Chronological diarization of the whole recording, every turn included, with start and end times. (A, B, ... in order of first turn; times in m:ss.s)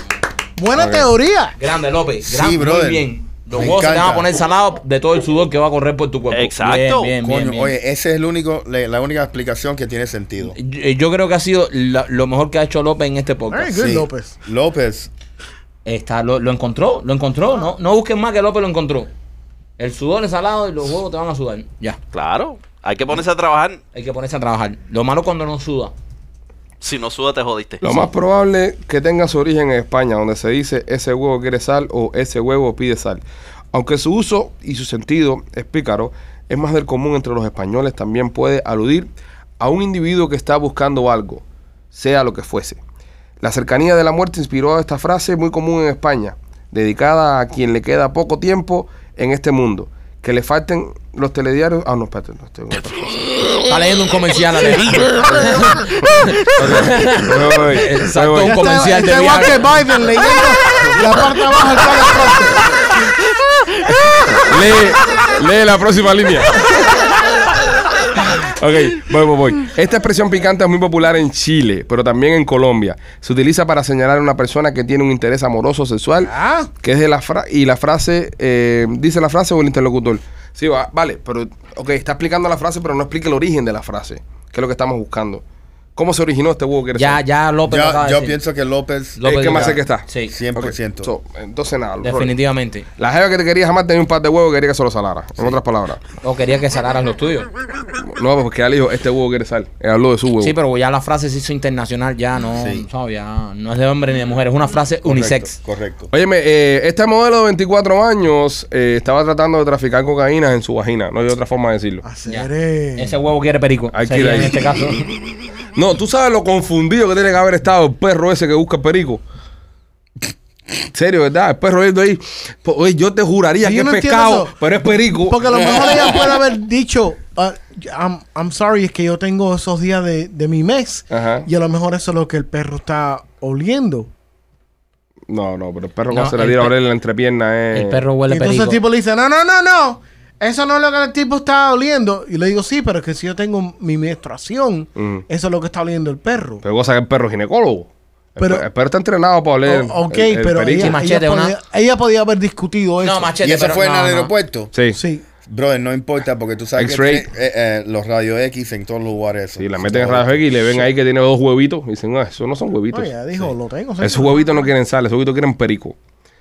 0:00.6-0:01.6 A
0:00.7-0:01.1 B
0:01.6-0:07.8 C
0:02.2-0:04.3 D
0:06.3-0:07.2 E
0:07.2-0:10.6 D
0:10.4-0:13.7 C
0:13.5-0:14.4 A
0:13.8-0:15.1 D
0:15.8-0:19.1 C
0:19.8-0:22.0 C
0:22.1-0:23.8 E
0:23.9-0:25.9 C
0:26.8-0:27.9 E
0:27.8-0:33.2 B
0:33.7-0:39.1 B
0:39.6-0:42.8 B
0:43.4-0:53.3 B
0:53.7-0:59.6 C
0:56.6-0:58.6 B
0:58.4-1:02.7 A
1:04.3-1:07.2 B
1:08.1-1:25.4 B
1:16.2-1:16.7 A
1:26.0-1:27.2 B
1:27.0-1:28.4 C
1:27.7-1:29.8 D
1:29.2-1:30.3 C
1:29.2-1:32.3 B
1:30.3-1:31.1 D
1:32.0-1:32.9 C
1:33.0-1:36.0 B
1:36.2-1:37.5 C
1:38.0-1:40.6 B
1:40.4-1:45.6 C
1:42.6-1:42.9 D
1:45.0-1:46.1 D
1:46.1-1:52.0 B
1:52.0-1:53.2 A
1:52.3-1:55.1 C
1:53.9-1:54.7 B
1:55.7-1:59.2 B
2:00.9-2:06.2 B
2:03.6-2:04.6 A
2:05.3-2:14.1 A
2:11.1-2:11.5 B
2:15.3-2:18.0 B
2:16.1-2:16.7 C
2:17.7-2:18.8 C
2:18.3-2:26.6 A
2:25.0-2:25.2 B
2:26.6-2:31.0 B
2:28.4-2:28.7 A
2:29.6-2:33.3 A
2:30.8-2:31.6 C
2:33.0-2:34.3 C
2:33.4-2:34.7 D
2:34.7-2:35.0 B
2:34.9-2:35.2 A
2:35.4-2:40.9 D
2:36.8-2:37.3 B
2:39.6-2:43.5 B
2:42.9-2:44.5 A
2:44.0-2:46.0 B